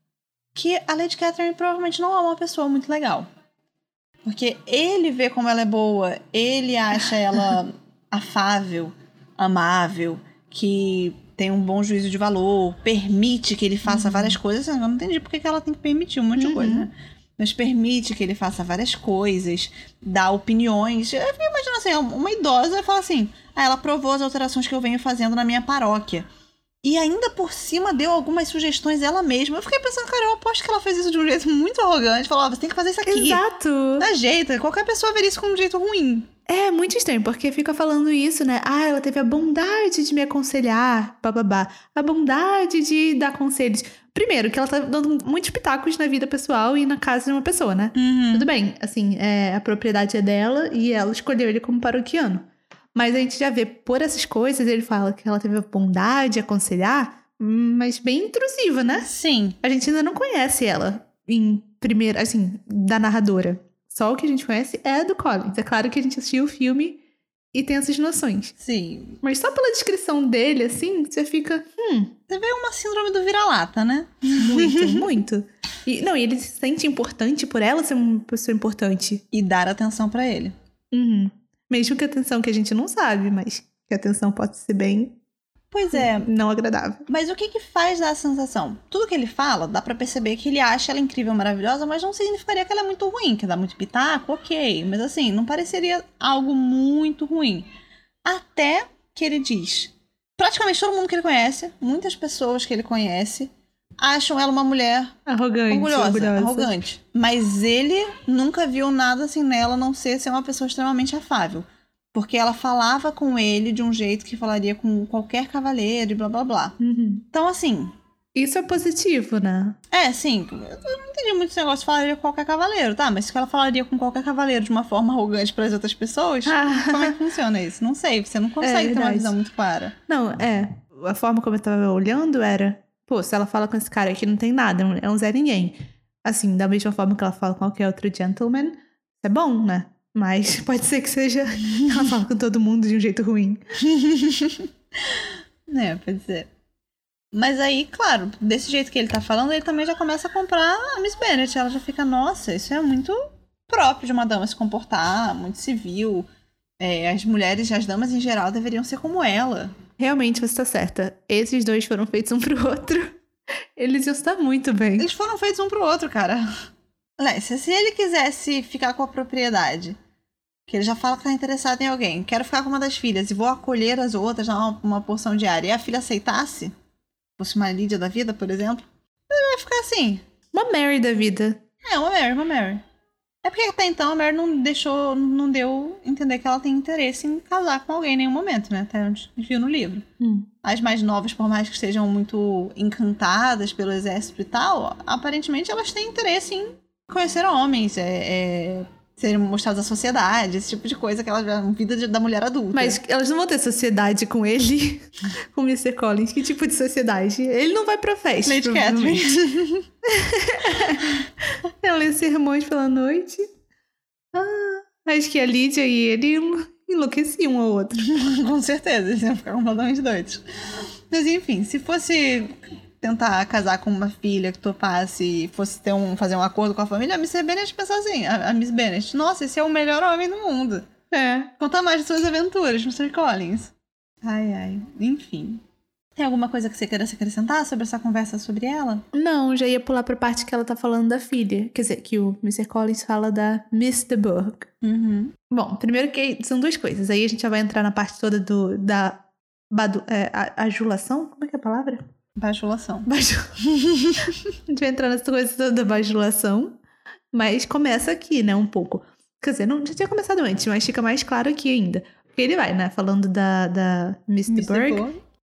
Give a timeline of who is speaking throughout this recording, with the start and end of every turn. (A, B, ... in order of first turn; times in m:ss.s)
0:00.6-0:03.3 A
0:04.3-0:26.3 A
0:13.9-0:14.4 B
0:16.4-0:16.9 B
0:26.8-0:33.4 A
0:33.0-0:34.1 B
0:34.0-0:36.3 A
0:36.5-0:59.1 B
0:48.0-0:48.5 A
0:59.0-0:59.6 A
0:59.6-1:07.0 B
1:07.5-1:08.5 B
1:08.6-1:09.2 A
1:09.2-1:12.2 B
1:12.3-1:15.1 A
1:14.4-1:19.2 B
1:19.3-1:20.5 A
1:20.9-1:25.2 B
1:25.7-1:26.3 A
1:25.9-1:27.0 B
1:27.1-1:37.7 A
1:38.3-1:45.2 A
1:45.3-1:46.7 B
1:45.7-1:56.8 A
1:56.8-1:57.2 B
1:57.3-1:57.9 A
1:58.4-1:59.8 B
1:59.9-2:10.0 A
2:06.5-2:07.2 B
2:08.6-2:09.3 B
2:10.1-2:23.6 B
2:23.8-2:26.5 A
2:27.3-2:36.3 A
2:36.8-2:39.8 A
2:40.0-2:43.2 B
2:43.8-2:45.1 B
2:45.0-2:46.5 A
2:47.2-2:50.0 A
2:50.7-2:56.7 A
2:57.4-3:00.2 A
3:00.5-3:01.6 B
3:01.8-3:02.8 A
3:03.4-3:10.0 A
3:10.2-3:10.5 B
3:10.6-3:23.0 A
3:22.7-3:29.4 B
3:28.5-3:29.9 A
3:30.0-3:33.5 B
3:34.6-3:38.1 B
3:38.0-3:40.4 A
3:41.1-3:50.9 A
3:51.1-3:51.5 B
3:51.6-3:53.7 A
3:54.2-3:55.6 A
3:56.2-3:59.0 A
3:59.1-4:04.7 B
4:04.8-4:05.4 A
4:05.5-4:12.0 B
4:12.4-4:13.1 A
4:13.1-4:13.5 B
4:13.6-4:14.4 A
4:14.7-4:16.8 B
4:17.3-4:25.0 B
4:24.5-4:25.2 A